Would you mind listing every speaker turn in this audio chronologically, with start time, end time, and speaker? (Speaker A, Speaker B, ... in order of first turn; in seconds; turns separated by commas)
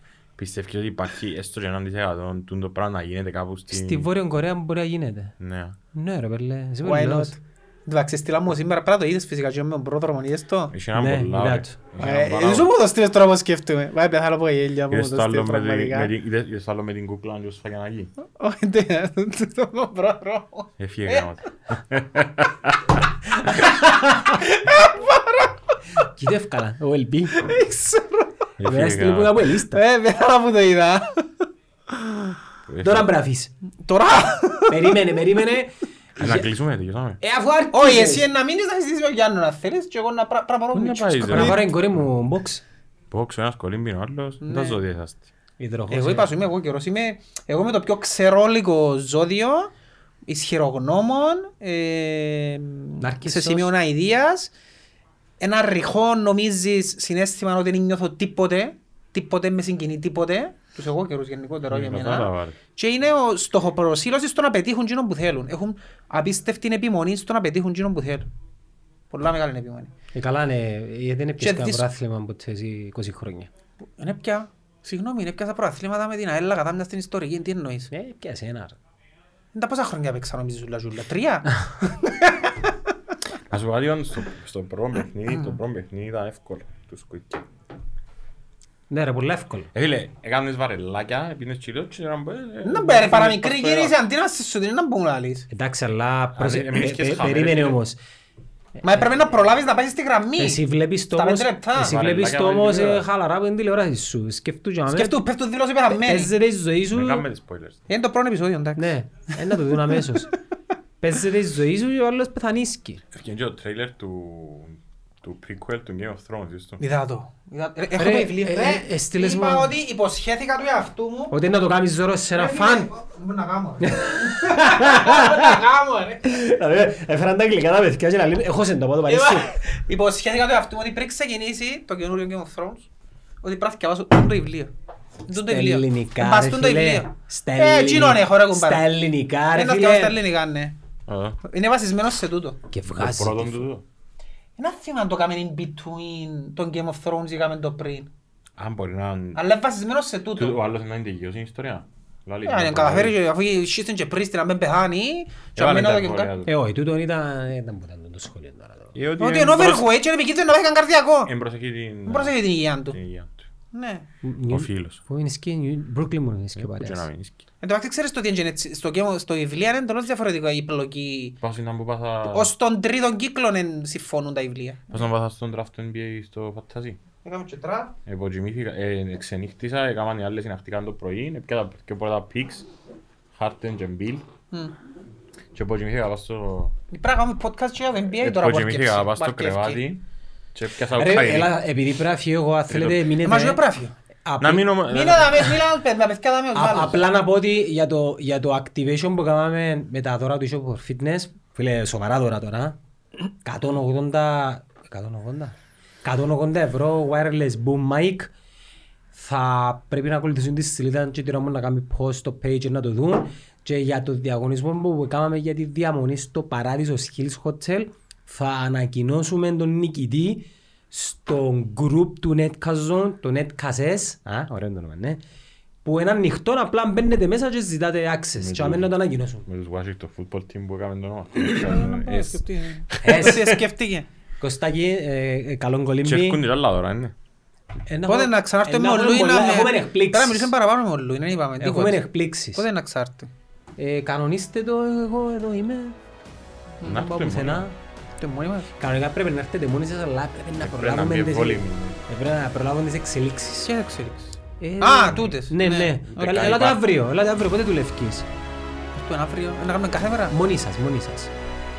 Speaker A: 0.4-4.1, Speaker B: 3.7-5.3, Speaker A: 5.4-5.8, Speaker B: 5.9-7.3, Speaker C: 6.8-10.7, Speaker A: 10.7-12.7, Speaker B: 10.9-11.8, Speaker C: 12.0-16.1, Speaker A: 14.9-18.1, Speaker C: 18.2-21.3, Speaker A: 20.8-23.1, Speaker C: 23.4-25.6, Speaker B: 23.6-24.3, Speaker B: 26.1-27.4, Speaker C: 27.4-28.3, Speaker A: 28.6-29.4, Speaker B: 28.6-29.8, Speaker C: 29.7-32.4, Speaker A: 32.6-33.1, Speaker B: 32.8-33.5, Speaker C: 33.8-35.0, Speaker B: 34.7-36.5, Speaker A: 36.2-37.2, Speaker B: 37.2-38.3, Speaker C: 37.7-41.7, Speaker A: 40.7-41.7, Speaker B: 41.2-42.6, Speaker A: 43.1-45.2, Speaker C: 44.4-44.8, Speaker B: 45.6-46.3, Speaker C: 45.9-49.7, Speaker C: 50.2-54.5, Speaker B: 53.0-53.7, Speaker C: 55.4-68.3, Speaker A: 61.7-62.6, Speaker C: 69.1-69.9, Speaker B: 70.1-73.5, Speaker C: 71.4-71.8, Speaker C: 74.0-77.9, Speaker B: 77.9-78.8, Speaker C: 79.5-82.8, Speaker A: 83.5-87.4, Speaker C: 85.3-85.6, Speaker B: 88.9-89.7, Speaker A: 89.7-93.9, Speaker C: 92.6-95.5, Speaker B: 95.5-98.0, Speaker A: 96.3-97.8, Speaker C: 98.8-102.0, Speaker B: 100.4-105.1, Speaker A: 101.8-103.0, Speaker C: 104.9-106.3, Speaker B: 105.9-107.2, Speaker A: 106.9-107.8, Speaker C: 107.9-108.9, Speaker B: 108.8-110.3, Speaker C: 109.7-110.2, Speaker B: 111.0-113.0, Speaker A: 113.1-116.8, Speaker C: 116.8-121.3, Speaker B: 118.0-119.7, Speaker B: 121.3-122.9, Speaker C: 122.3-126.3, Speaker B: 123.8-125.6, Speaker B: 126.2-129.5, Speaker C: 129.1-132.9, Speaker C: 133.4-134.7, Speaker C: 135.3-138.8, Speaker B: 135.3-140.2, Speaker C: 139.5-140.8, Speaker A: 141.1-141.4, Speaker C: 141.4-142.6, Speaker B: 142.7-143.7, Speaker A: 142.9-143.8, Speaker C: 144.6-148.1, Speaker A: 148.6-149.4, Speaker C: 149.3-150.6, Speaker A: 150.3-153.1, Speaker C: 152.4-156.3, Speaker A: 155.6-156.5, Speaker B: 156.4-158.9, Speaker A: 158.9-159.9, Speaker C: 159.2-161.3, Speaker A: 161.2-162.4, Speaker C: 162.1-163.0, Speaker A: 162.9-163.4, Speaker C: 163.7-164.1, Speaker B: 164.2-167.1, Speaker A: 164.5-165.0, Speaker A: 166.6-167.4, Speaker C: 167.6-171.4, Speaker A: 171.4-172.5, Speaker C: 172.2-175.1, Speaker A: 174.9-177.0, Speaker C: 177.2-177.9, Speaker A: 178.0-182.7, Speaker A: 183.3-184.3, Speaker A: 185.5-186.7, Speaker C: 186.9-189.8, Speaker A: 188.2-190.0, Speaker A: 190.5-191.5, Speaker B: 190.9-193.6, Speaker A: 192.7-193.1, Speaker C: 193.2-193.9, Speaker B: 194.2-194.8, Speaker A: 194.4-195.4, Speaker C: 194.9-197.0, Speaker B: 196.5-202.8, Speaker B: 203.4-208.3, Speaker B: 209.1-225.2, Speaker B: 225.8-229.4, Speaker A: 228.4-228.9, Speaker A: 229.4-233.6, Speaker C: 231.4-234.1, Speaker B: 233.0-233.5, Speaker B: 234.4-236.4, Speaker A: 236.0-237.1, Speaker B: 237.9-240.5, Speaker C: 238.1-243.3, Speaker B: 241.6-242.6, Speaker B: 243.8-245.9, Speaker B: 246.8-247.8, Speaker A: 246.8-247.7, Speaker C: 248.2-248.7, Speaker B: 248.8-253.7, Speaker A: 250.6-252.0, Speaker C: 253.6-256.5, Speaker B: 254.6-258.3, Speaker A: 256.2-256.8, Speaker C: 258.9-260.3, Speaker B: 260.3-261.3